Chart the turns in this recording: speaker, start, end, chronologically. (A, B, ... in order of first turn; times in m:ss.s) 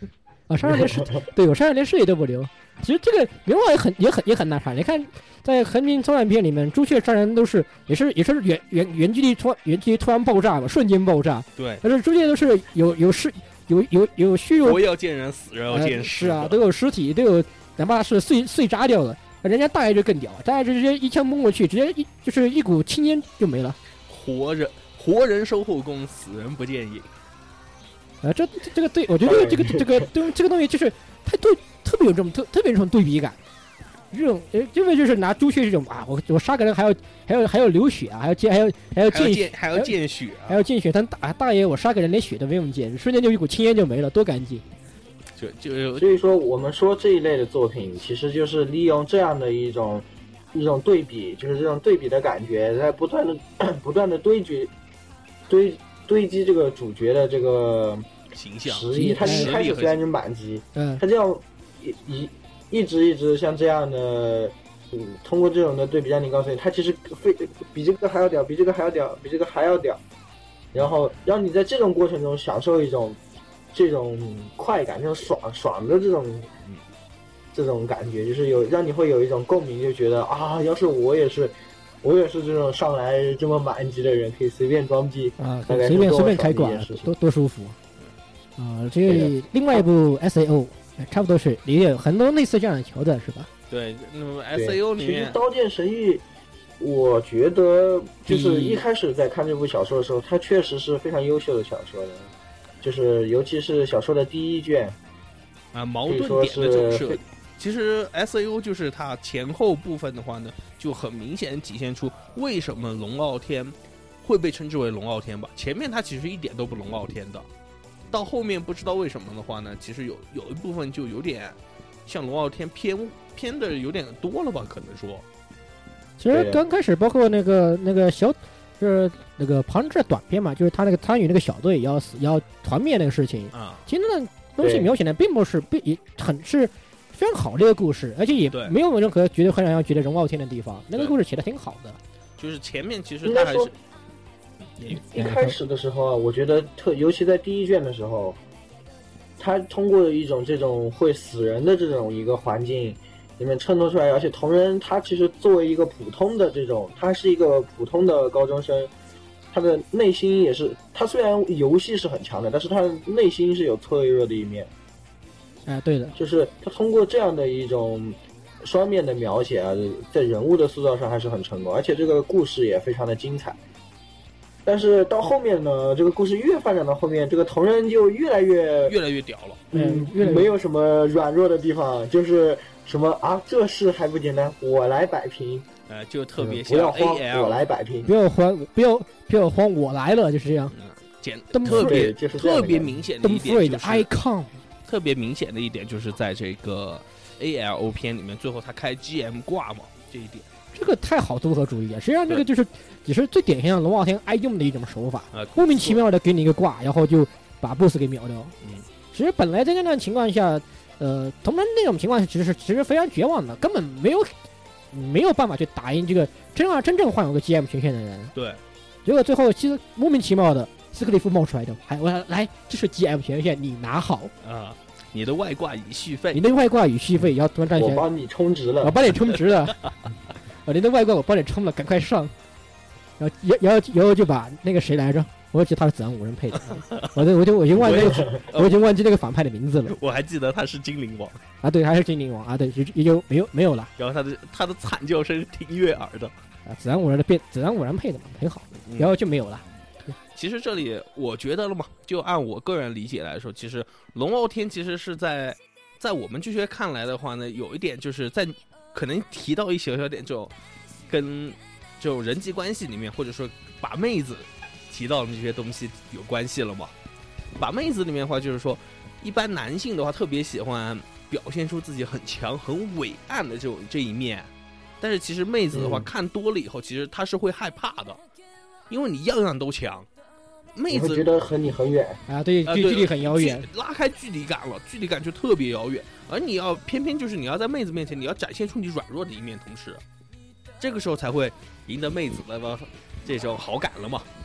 0:00.5-0:14.8 A
0:00.7-0:01.2 B
0:11.6-0:11.8 C
0:14.6-0:16.6 C
0:15.7-0:23.8 A
0:24.1-0:27.1 C
0:28.2-0:33.4 A
0:29.2-0:30.1 B
0:34.1-0:39.9 A
0:39.1-0:40.6 C
0:40.5-0:44.6 A
0:45.4-0:46.1 C
0:46.0-0:54.7 B
0:55.5-0:58.1 B
0:58.3-1:00.0 C
0:58.6-1:10.0 B
0:58.9-0:59.6 A
1:00.8-1:01.0 A
1:10.7-1:13.2 B
1:13.7-1:16.5 B
1:17.5-1:27.1 B
1:25.4-1:27.8 A
1:28.6-1:33.5 A
1:29.1-1:29.8 B
1:33.7-1:35.4 C
1:34.5-1:36.2 B
1:36.8-1:42.3 B
1:38.3-1:38.8 A
1:42.8-1:45.0 B
1:45.7-1:57.5 C
1:46.1-1:47.2 B
1:58.1-2:05.2 C
2:06.2-2:22.0 A
2:06.3-2:06.6 B
2:13.5-2:13.8 C
2:14.6-2:14.9 B
2:22.4-2:23.7 C
2:23.2-2:23.7 B
2:24.8-2:25.6 A
2:25.0-2:28.4 B
2:29.4-2:38.9 B
2:39.5-2:44.7 B
2:45.7-2:46.2 A
2:46.2-2:53.6 B
2:54.6-2:59.0 B
2:58.9-2:59.7 C
2:59.7-3:05.7 B
2:59.7-3:00.5 A
3:05.9-3:07.6 C
3:06.4-3:08.1 B
3:08.0-3:10.7 A
3:10.8-3:14.1 C
3:11.5-3:12.0 A
3:11.7-3:13.0 B
3:13.2-3:14.6 A
3:14.8-3:20.5 C
3:20.7-3:28.5 A
3:25.3-3:26.0 C
3:29.1-3:34.3 A
3:34.9-3:38.3 A
3:38.4-3:38.6 C
3:39.0-3:44.3 A
3:44.4-3:46.4 C
3:46.3-3:48.0 A
3:47.8-3:49.0 B
3:48.8-3:49.8 A
3:50.6-3:52.3 A
3:53.2-4:00.0 A
3:56.6-3:57.2 C
3:57.8-3:58.7 C
3:57.8-3:58.4 B
3:59.9-4:01.4 C
4:01.6-4:03.9 A
4:04.0-4:06.3 C
4:06.7-4:09.6 A
4:08.9-4:09.1 C
4:10.4-4:20.5 C
4:21.1-4:26.9 C
4:27.6-4:38.2 C
4:35.7-4:36.1 B
4:38.9-4:40.1 C
4:40.8-4:41.3 C
4:40.9-4:42.2 B
4:42.3-4:43.7 A
4:42.7-4:50.0 C
4:50.8-4:54.3 C